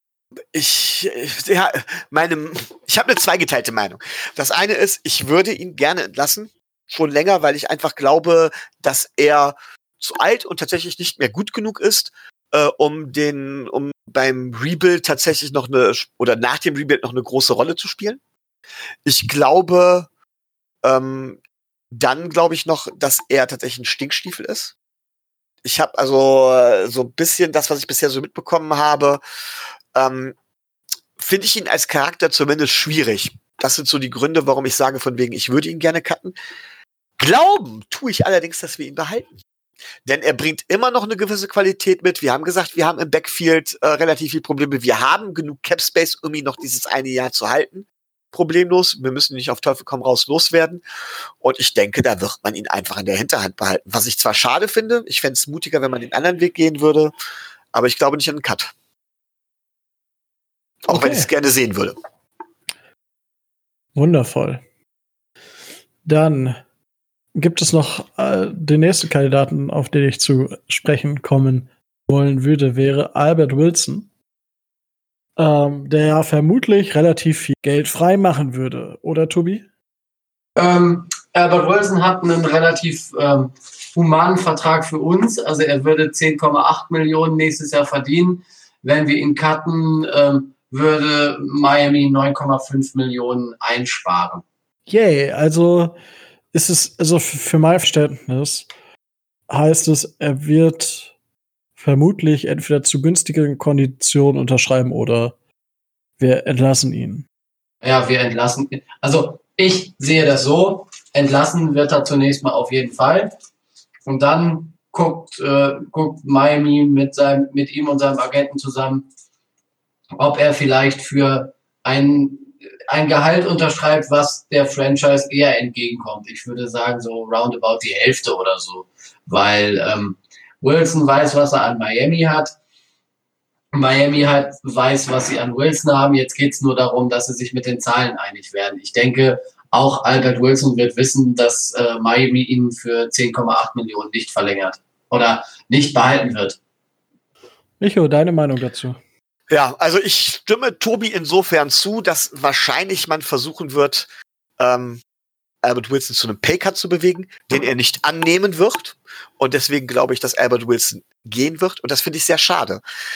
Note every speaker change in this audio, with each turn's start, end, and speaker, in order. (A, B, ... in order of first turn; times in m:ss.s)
0:00.5-0:18.2 A
0:19.0-0:20.1 A
0:20.8-0:21.4 A
0:21.9-0:24.7 A
0:25.6-0:29.2 A
0:29.9-0:30.3 A
0:31.2-0:36.3 A
0:37.2-0:39.3 A
0:40.0-0:50.8 A
0:51.4-0:57.1 A
0:57.7-0:58.7 A
1:00.8-1:02.0 A
1:00.9-1:01.3 B
1:03.9-1:04.6 B
1:06.0-1:06.6 B
1:07.3-1:14.1 B
1:15.4-1:19.6 B
1:20.6-1:34.4 C
1:34.9-1:36.0 B
1:36.5-1:38.7 B
1:39.5-1:41.1 B
1:41.8-1:45.3 B
1:46.2-1:47.3 B
1:47.8-1:53.3 C
1:54.0-1:59.1 C
2:00.2-2:12.5 C
2:13.7-2:26.6 C
2:27.8-2:29.0 B
2:29.5-2:34.1 A
2:34.6-2:35.0 A
2:35.6-2:42.8 A